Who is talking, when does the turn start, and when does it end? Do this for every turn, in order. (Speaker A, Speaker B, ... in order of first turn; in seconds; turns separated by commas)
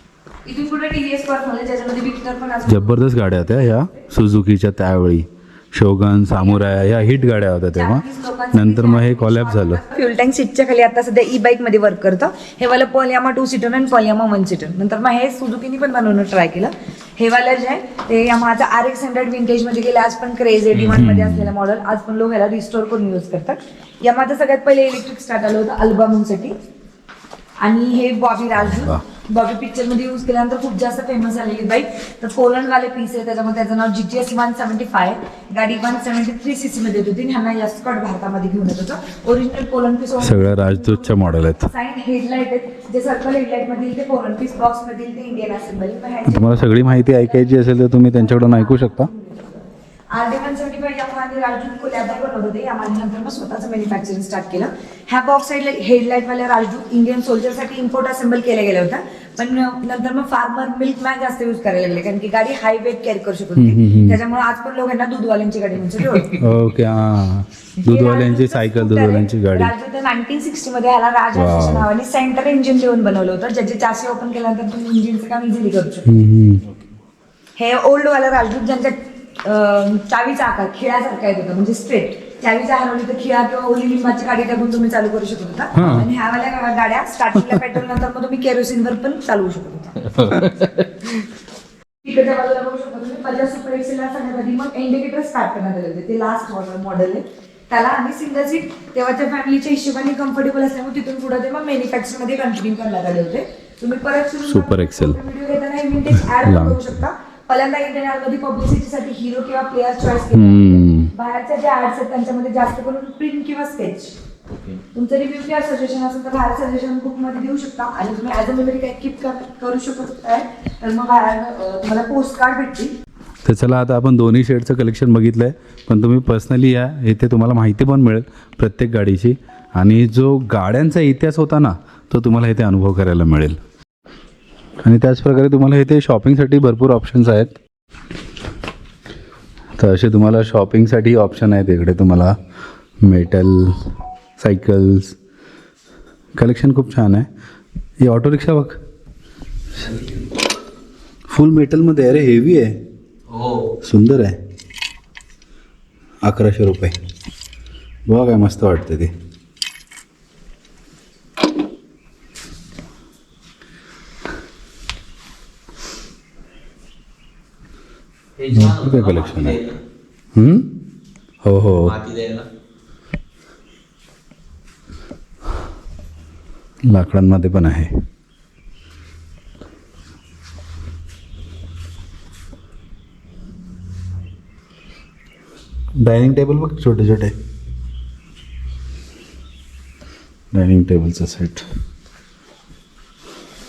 Speaker A: 0.5-3.0, Speaker B: 2.7-9.8, Speaker A: 6.3-26.6, Speaker B: 20.8-21.5, Speaker A: 27.6-47.5, Speaker B: 28.6-29.0, Speaker B: 40.2-41.7, Speaker B: 46.3-49.1, Speaker A: 48.1-49.6, Speaker A: 50.1-66.4, Speaker B: 63.6-64.2, Speaker B: 66.3-69.7, Speaker A: 67.8-76.1, Speaker B: 71.3-71.9, Speaker B: 76.1-76.6, Speaker A: 77.6-90.4, Speaker B: 85.8-86.1, Speaker C: 90.2-90.7, Speaker A: 92.0-114.2, Speaker B: 104.5-105.2, Speaker B: 106.2-107.0, Speaker B: 110.3-111.1, Speaker C: 114.5-114.8, Speaker A: 114.9-122.9, Speaker B: 123.5-133.6, Speaker B: 134.8-137.6, Speaker B: 139.8-142.3, Speaker B: 143.0-143.9, Speaker B: 144.4-145.2, Speaker B: 146.4-147.3, Speaker B: 148.0-148.8, Speaker B: 151.3-152.8, Speaker C: 153.3-153.7, Speaker B: 153.8-154.4, Speaker B: 156.2-156.9, Speaker B: 158.1-159.1, Speaker C: 168.4-169.8, Speaker B: 168.5-169.6, Speaker B: 170.3-170.7, Speaker B: 171.4-172.0, Speaker C: 171.7-172.5, Speaker B: 176.9-177.9, Speaker B: 186.0-187.3, Speaker B: 190.5-191.7